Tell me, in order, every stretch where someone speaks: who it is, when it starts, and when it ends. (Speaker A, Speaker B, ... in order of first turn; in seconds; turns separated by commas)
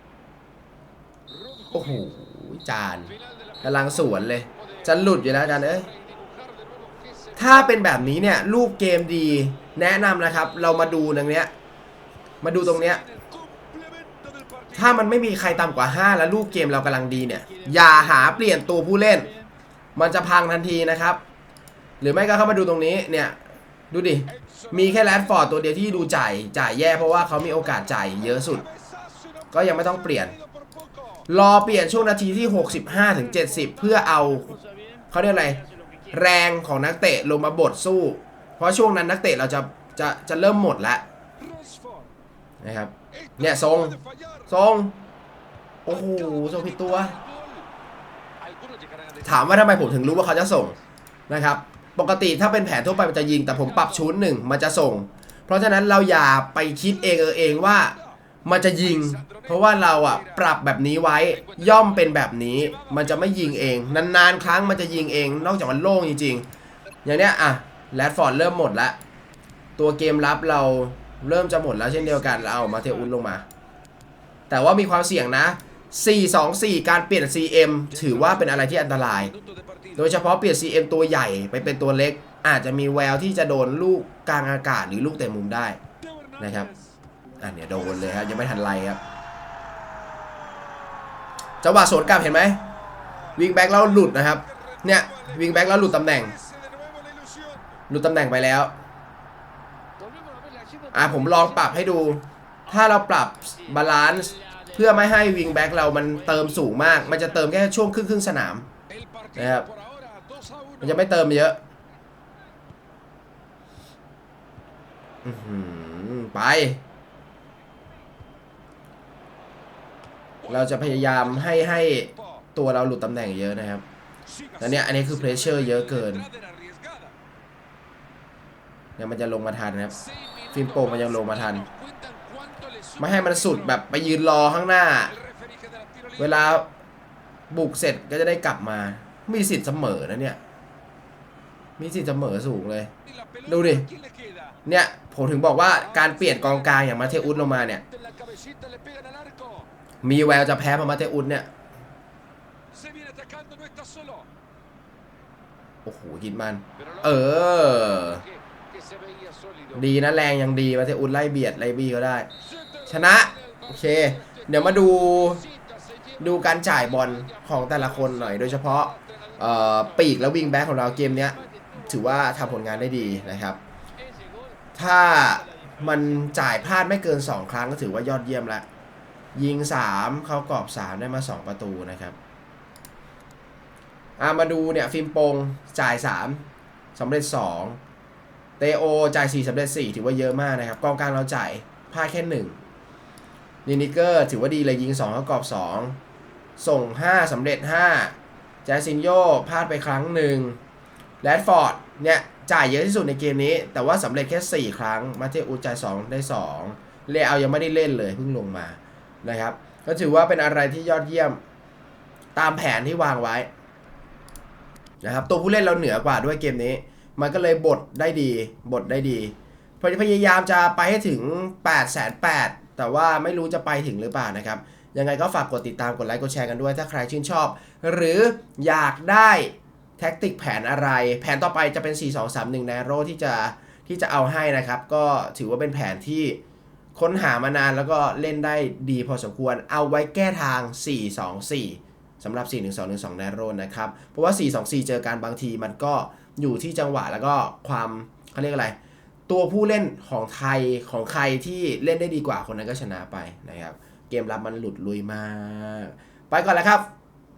Speaker A: 1.3-2.0, Speaker B: 1.7-5.9, Speaker A: 3.1-3.6, Speaker A: 4.5-7.5, Speaker B: 7.3-11.5, Speaker B: 12.4-13.0, Speaker A: 12.6-14.8, Speaker B: 14.8-19.3, Speaker B: 19.9-21.2, Speaker B: 22.0-23.4, Speaker B: 23.9-28.6, Speaker A: 24.6-25.1, Speaker A: 28.7-29.2, Speaker B: 29.5-30.3, Speaker B: 31.3-34.6, Speaker A: 34.6-35.0, Speaker B: 35.1-41.0, Speaker A: 35.7-35.9, Speaker A: 41.4-42.1, Speaker B: 42.6-45.0, Speaker A: 43.4-44.4, Speaker B: 45.9-47.2, Speaker A: 45.9-47.7, Speaker A: 48.4-50.0, Speaker B: 49.2-50.8, Speaker B: 51.3-66.5, Speaker A: 53.4-53.8, Speaker A: 59.0-60.3, Speaker A: 61.4-62.0, Speaker A: 62.8-63.3, Speaker B: 67.0-69.0, Speaker B: 69.8-73.5, Speaker A: 72.3-72.9, Speaker B: 74.5-79.3, Speaker A: 78.0-80.0, Speaker B: 80.0-85.8, Speaker A: 86.0-86.8, Speaker B: 86.4-86.7, Speaker B: 87.4-89.0, Speaker B: 91.6-92.6, Speaker B: 93.3-96.3, Speaker A: 95.1-97.6, Speaker B: 97.9-98.7, Speaker A: 100.0-101.6, Speaker B: 100.9-108.7, Speaker A: 108.9-110.9, Speaker B: 109.3-109.7, Speaker B: 110.8-111.6, Speaker B: 115.2-116.8, Speaker B: 120.5-123.8, Speaker A: 124.4-127.1, Speaker B: 124.6-126.3, Speaker B: 129.0-129.9, Speaker A: 130.1-133.6, Speaker B: 130.5-131.7, Speaker B: 133.0-135.1, Speaker A: 135.1-136.2, Speaker B: 136.2-136.7, Speaker B: 137.5-140.4, Speaker B: 141.8-142.9, Speaker A: 143.2-144.6, Speaker B: 143.4-143.9, Speaker B: 144.7-147.8, Speaker A: 146.1-149.7, Speaker B: 150.0-151.5, Speaker A: 152.7-154.3, Speaker B: 155.8-158.2, Speaker A: 156.9-159.8, Speaker B: 159.7-162.3, Speaker A: 162.5-164.5, Speaker B: 162.9-165.4, Speaker A: 165.3-166.2, Speaker B: 166.2-173.6, Speaker A: 167.0-169.1, Speaker A: 171.4-171.8, Speaker A: 174.1-174.4, Speaker B: 174.7-178.7, Speaker B: 179.3-182.2, Speaker B: 184.2-186.4, Speaker B: 186.9-187.8, Speaker B: 188.6-192.6, Speaker B: 193.7-196.0, Speaker B: 196.6-200.6, Speaker B: 201.2-211.4, Speaker B: 212.3-213.5, Speaker B: 215.0-236.4, Speaker B: 236.9-248.8, Speaker B: 249.3-256.9